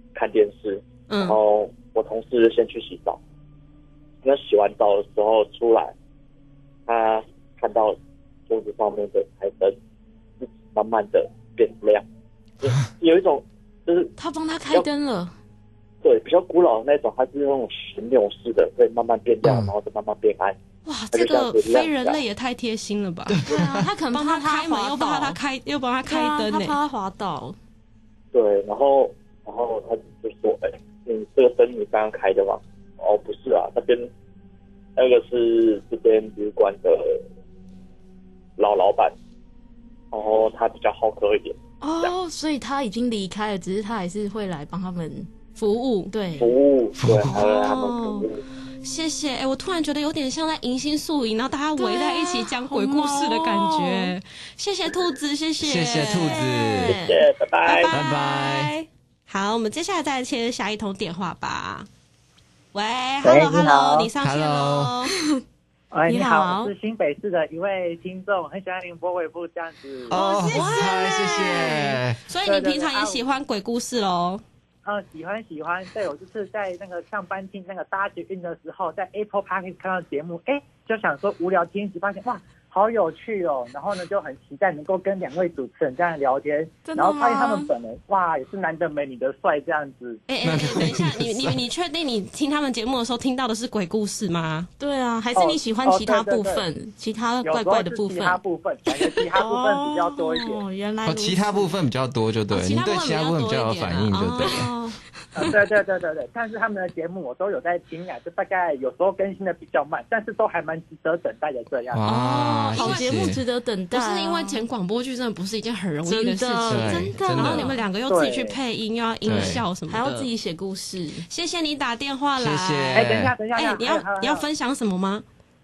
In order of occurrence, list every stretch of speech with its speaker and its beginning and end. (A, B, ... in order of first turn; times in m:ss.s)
0:00.1-0:03.2 A
0:01.1-0:01.4 B
0:04.2-0:05.9 A
0:06.9-0:08.0 A
0:08.5-0:09.8 A
0:10.4-0:12.0 A
0:12.6-0:14.1 A
0:14.2-0:15.3 C
0:16.0-0:20.6 A
0:19.4-0:19.7 D
0:20.8-0:23.4 B
0:21.1-0:22.2 A
0:23.3-0:23.9 D
0:23.4-0:25.4 C
0:24.1-0:26.8 B
0:26.1-0:27.6 C
0:28.3-0:34.1 A
0:35.0-0:37.2 A
0:38.6-0:39.1 A
0:40.1-0:42.1 A
0:41.8-0:45.3 C
0:45.5-0:46.1 B
0:46.1-0:46.5 C
0:46.4-0:48.4 A
0:47.0-0:47.3 D
0:47.3-0:48.3 B
0:48.8-0:56.8 B
0:51.8-0:54.1 C
0:55.6-0:57.0 D
0:56.2-0:57.2 C
0:56.9-0:57.9 A
0:57.6-1:01.9 B
0:57.9-0:58.7 D
1:02.7-1:05.1 B
1:03.2-1:04.1 E
1:04.2-1:04.9 D
1:05.9-1:10.2 E
1:06.1-1:06.7 C
1:10.1-1:12.2 D
1:10.1-1:14.4 B
1:10.2-1:10.9 C
1:12.4-1:13.2 E
1:14.8-1:30.2 E
1:26.8-1:27.7 C
1:30.3-1:34.7 B
1:30.4-1:31.6 D
1:34.8-1:38.4 C
1:35.3-1:36.6 E
1:37.4-1:40.6 E
1:39.0-1:41.7 C
1:41.0-1:44.7 D
1:42.5-1:44.9 B
1:44.4-1:45.0 C
1:45.4-1:52.1 E
1:51.9-1:53.4 D
1:52.1-1:54.6 C
1:52.1-1:53.3 B
1:53.9-2:00.3 B
1:56.0-1:57.8 C
1:56.7-1:57.7 D
1:58.0-1:58.6 E
1:59.2-1:59.6 D
1:59.4-2:01.2 C
2:01.3-2:05.2 B
2:02.4-2:03.3 D
2:02.9-2:04.4 E